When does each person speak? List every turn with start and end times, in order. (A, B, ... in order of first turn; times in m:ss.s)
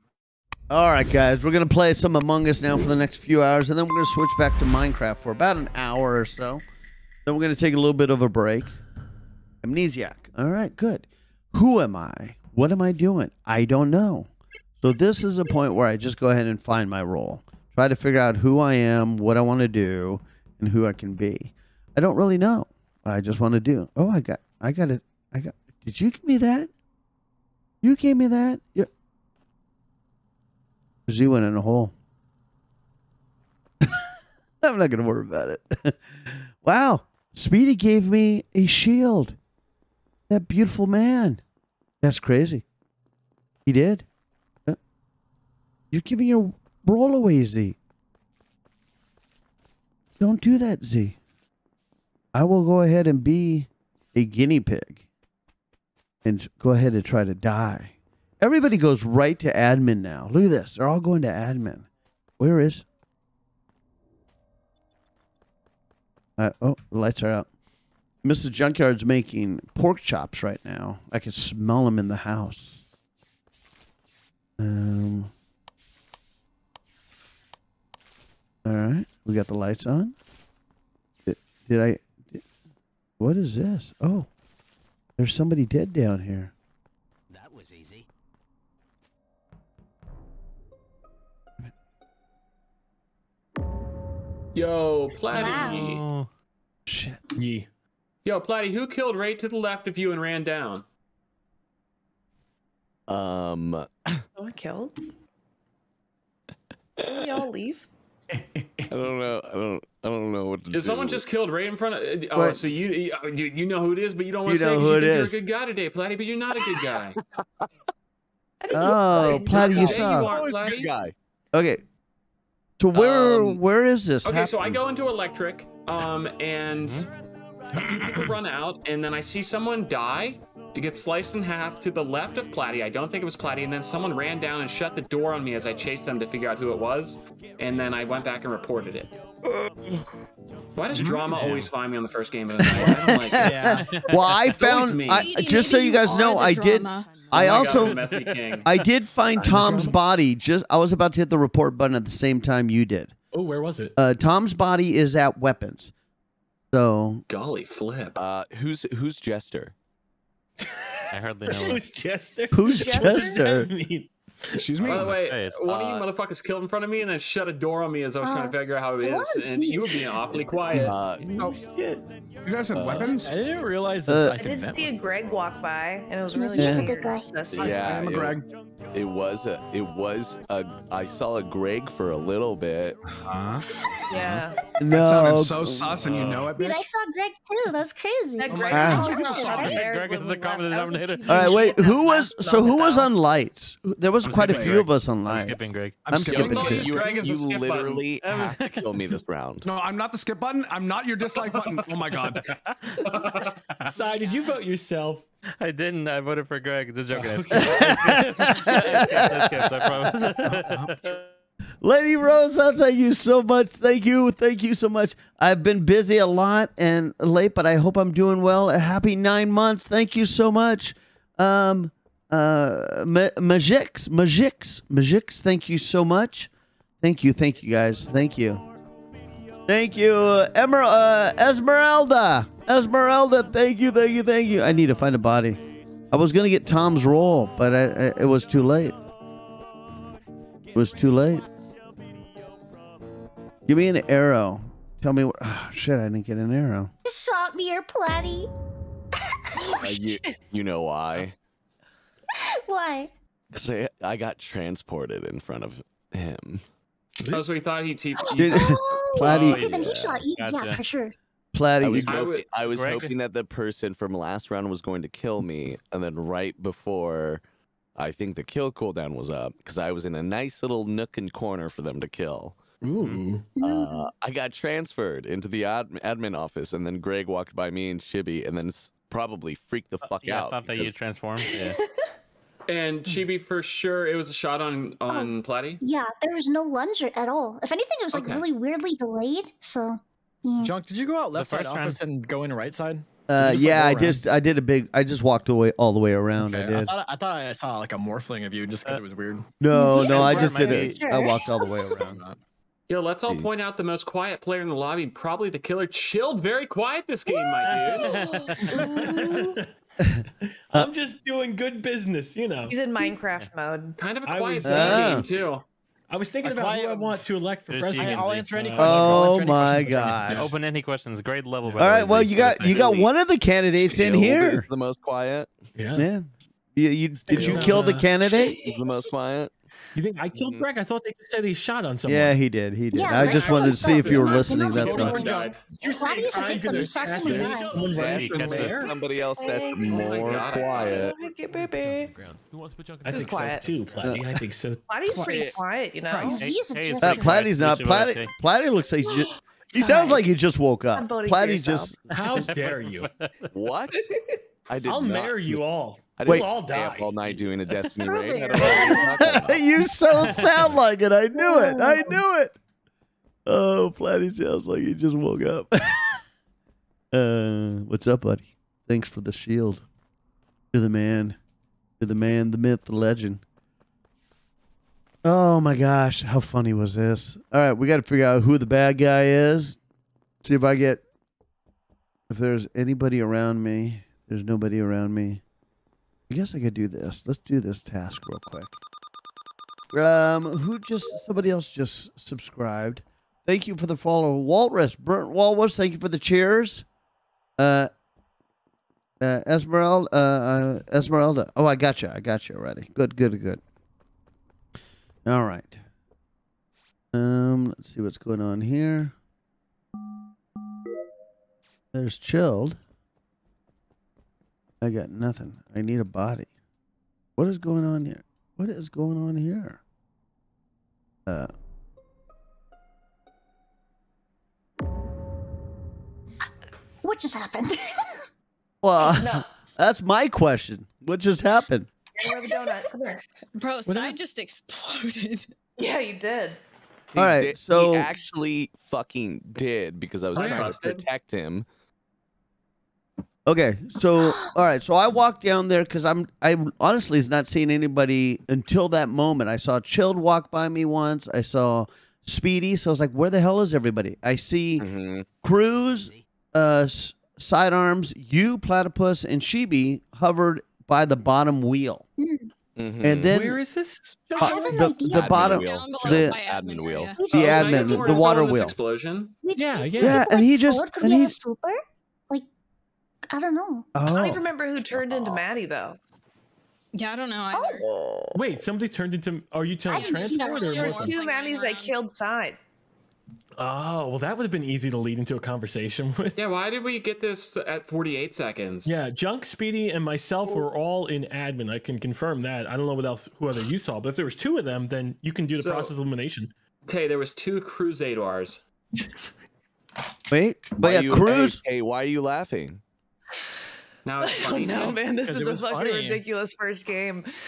0:00.7-0:06.6 A
0:07.2-0:08.8 A
0:09.6-0:14.3 A
0:14.8-0:26.7 A
0:27.8-0:28.9 A
0:31.1-0:31.9 A
0:34.6-0:39.4 A
0:40.3-0:41.4 A
0:42.0-0:42.6 A
0:43.7-0:44.1 A
0:45.9-0:47.8 A
0:50.2-0:51.2 A
0:52.3-0:55.1 A
0:56.2-1:01.9 A
1:02.4-1:02.8 A
1:06.4-1:07.5 A
1:08.2-1:12.8 A
1:14.6-1:15.3 A
1:18.6-1:20.2 A
1:21.3-1:22.4 A
1:23.2-1:24.3 A
1:25.2-1:26.5 A
1:34.5-1:36.0 B
1:35.3-1:36.3 C
1:35.3-1:35.8 D
1:36.9-1:37.2 A
1:37.4-1:37.7 E
1:38.2-1:40.9 B
1:43.1-1:44.2 F
1:44.4-1:45.0 G
1:47.0-1:47.4 F
1:47.0-1:47.9 G
1:48.9-1:51.2 F
1:50.7-1:57.2 B
1:52.4-1:52.6 A
1:54.5-1:55.4 A
1:58.6-1:59.9 G
1:58.7-2:00.3 A
1:59.2-2:01.1 F
1:59.5-2:00.9 B
2:01.5-2:01.8 A
2:02.8-2:04.8 A
2:02.9-2:03.6 B
2:04.2-2:07.1 B
2:06.8-2:07.1 C
2:07.7-2:19.1 B
2:20.8-2:23.8 B
2:21.4-2:21.7 E
2:21.4-2:21.7 C
2:22.6-2:28.0 A
2:23.4-2:24.0 H
2:23.8-2:24.2 C
2:24.5-2:25.3 B
2:25.1-2:27.3 I
2:27.3-2:28.7 B
2:27.4-2:28.8 C
2:27.9-2:28.2 E
2:28.6-2:33.1 A
2:29.4-2:30.0 E
2:33.3-2:34.0 E
2:34.0-2:35.9 A
2:36.7-2:37.2 A
2:37.3-2:38.2 B
2:38.2-2:39.7 F
2:40.6-2:44.7 E
2:41.1-2:41.9 C
2:42.5-2:43.7 A
2:42.7-2:43.4 G
2:44.5-2:45.2 J
2:44.8-2:51.0 B
2:44.8-2:45.7 C
2:45.7-2:46.1 F
2:48.2-2:50.4 D
2:50.7-2:51.5 F
2:51.6-2:52.0 E
2:52.4-2:53.4 J
2:52.7-2:53.2 F
2:53.2-2:54.9 H
2:54.1-2:54.4 A
2:54.4-2:57.9 G
2:56.4-2:57.3 D
2:56.6-2:56.9 A
2:57.5-2:58.4 F
2:57.6-2:58.5 J
2:58.9-3:03.0 F
3:03.1-3:03.6 J
3:04.1-3:04.6 G
3:04.2-3:06.9 J
3:04.8-3:06.1 A
3:06.1-3:06.5 B
3:06.6-3:09.8 D
3:08.4-3:13.1 G
3:08.7-3:09.8 I
3:08.7-3:09.2 A
3:09.3-3:11.7 C
3:11.3-3:17.0 A
3:14.2-3:16.1 C
3:14.3-3:14.8 J
3:16.0-3:16.8 J
3:16.3-3:18.0 B
3:16.6-3:19.7 F
3:18.2-3:19.1 C
3:19.6-3:22.6 J
3:21.4-3:23.9 C
3:23.0-3:23.6 B
3:23.9-3:25.3 E
3:24.0-3:24.6 I
3:25.6-3:31.3 C
3:27.1-3:29.7 E
3:27.6-3:30.0 A
3:30.5-3:31.1 J
3:31.8-3:48.6 A
3:49.7-3:59.0 A
4:00.7-4:01.5 A
4:03.7-4:06.9 A
4:07.0-4:08.5 D
4:09.2-4:09.5 D
4:09.8-4:11.4 F
4:09.9-4:10.4 I
4:12.3-4:13.1 D
4:13.5-4:16.6 F
4:17.2-4:17.6 E
4:17.3-4:18.6 B
4:18.4-4:19.6 A
4:18.5-4:21.2 D
4:19.2-4:20.8 C
4:19.4-4:20.2 F
4:21.5-4:22.3 A
4:21.8-4:27.4 F
4:22.0-4:23.0 B
4:22.6-4:23.1 C
4:28.0-4:32.6 F
4:32.8-4:33.5 E
4:33.6-4:41.0 F
4:33.6-4:34.1 D
4:40.1-4:41.8 C
4:42.7-4:45.8 B
4:45.1-4:50.8 D
4:48.1-4:48.4 B
4:50.6-4:54.2 H
4:51.3-4:52.0 C
4:53.3-4:56.9 A
4:56.4-4:59.5 H
4:59.6-5:02.2 A
4:59.7-5:00.4 D
4:59.8-5:01.9 G
5:00.0-5:01.0 C
5:02.0-5:02.4 H
5:02.9-5:08.1 B
5:07.6-5:08.0 E
5:08.0-5:08.9 C
5:08.0-5:08.6 I
5:08.6-5:09.7 E
5:08.6-5:09.6 G
5:10.0-5:10.9 A
5:10.4-5:12.8 E
5:12.7-5:14.0 G
5:14.0-5:15.6 B
5:14.2-5:15.3 E
5:14.6-5:15.3 A
5:16.1-5:19.2 E
5:16.4-5:17.2 H
5:17.7-5:19.3 C
5:18.0-5:20.3 H
5:18.8-5:20.5 A
5:20.0-5:22.9 C
5:20.3-5:20.6 E
5:21.7-5:22.0 E
5:21.8-5:24.7 A
5:22.0-5:23.1 F
5:23.8-5:25.5 F
5:25.8-5:26.1 E
5:26.0-5:28.6 A
5:27.3-5:28.1 E
5:27.3-5:29.5 F
5:30.0-5:32.4 E
5:30.3-5:30.7 F
5:32.0-5:35.3 A
5:32.9-5:37.8 D
5:33.8-5:39.0 E
5:34.8-5:35.6 B
5:36.3-5:41.2 F
5:38.0-5:38.9 C
5:39.4-5:42.1 G
5:39.8-5:41.1 B
5:41.8-5:46.5 E
5:43.1-5:43.7 G
5:44.0-5:44.3 A
5:44.9-5:46.5 G
5:46.3-5:47.3 D
5:46.4-5:48.3 C
5:47.0-5:52.1 A
5:49.7-5:50.2 G
5:51.0-5:51.9 G
5:52.1-5:53.1 E
5:52.3-5:53.5 C
5:53.5-5:54.0 F
5:54.7-5:55.6 F
5:54.8-5:57.5 E
5:56.2-5:59.7 F
5:58.0-5:59.2 G
5:59.2-6:02.6 A
6:00.3-6:00.7 C
6:01.4-6:02.1 D
6:03.5-6:06.2 A
6:07.1-6:09.9 A
6:10.7-6:11.4 A
6:12.0-6:13.4 A
6:15.2-6:19.8 A
6:20.4-6:21.0 A
6:22.3-6:25.4 A
6:26.3-6:28.8 A
6:29.9-6:36.9 A
6:37.6-6:37.9 A
6:39.2-6:43.6 A
6:45.2-6:45.8 A
6:47.1-6:49.1 A
6:51.9-6:52.8 A
6:54.8-6:56.5 A
6:57.4-6:59.8 A
7:01.3-7:01.5 A
7:07.0-7:08.3 D
7:08.8-7:11.9 A
7:09.0-7:09.5 G
7:12.2-7:13.2 G
7:13.6-7:15.5 I
7:13.9-7:14.2 E
7:15.8-7:16.6 G
7:17.1-7:21.7 F
7:17.2-7:18.1 A
7:20.3-7:21.1 B
7:23.5-7:34.9 A
7:24.2-7:24.5 D
7:34.8-7:35.3 F
7:35.4-7:42.0 A
7:42.2-7:42.5 D
7:42.8-7:43.4 F
7:43.0-7:43.6 A
7:43.2-7:44.9 E
7:44.4-7:45.4 D
7:44.7-7:46.4 A
7:45.0-7:47.2 F
7:45.5-7:47.2 I
7:47.2-7:48.4 D
7:47.3-7:49.4 B
7:47.3-7:48.8 A
7:49.4-7:52.5 D
7:49.6-7:50.2 E
7:50.0-7:51.4 A
7:53.3-7:53.9 D
7:54.0-7:54.5 A
7:54.1-7:56.0 G
7:56.9-7:57.9 I
7:57.5-7:57.8 D
7:58.3-8:01.2 E
7:59.9-8:02.0 I
7:59.9-8:01.0 D
8:00.8-8:02.6 G
8:03.6-8:06.4 E
8:06.4-8:08.9 B
8:08.8-8:16.5 E
8:15.5-8:15.9 B
8:16.9-8:18.6 B
8:20.3-8:21.6 A
8:20.8-8:22.8 F
8:24.0-8:25.0 B
8:24.2-8:27.3 G
8:24.8-8:26.2 H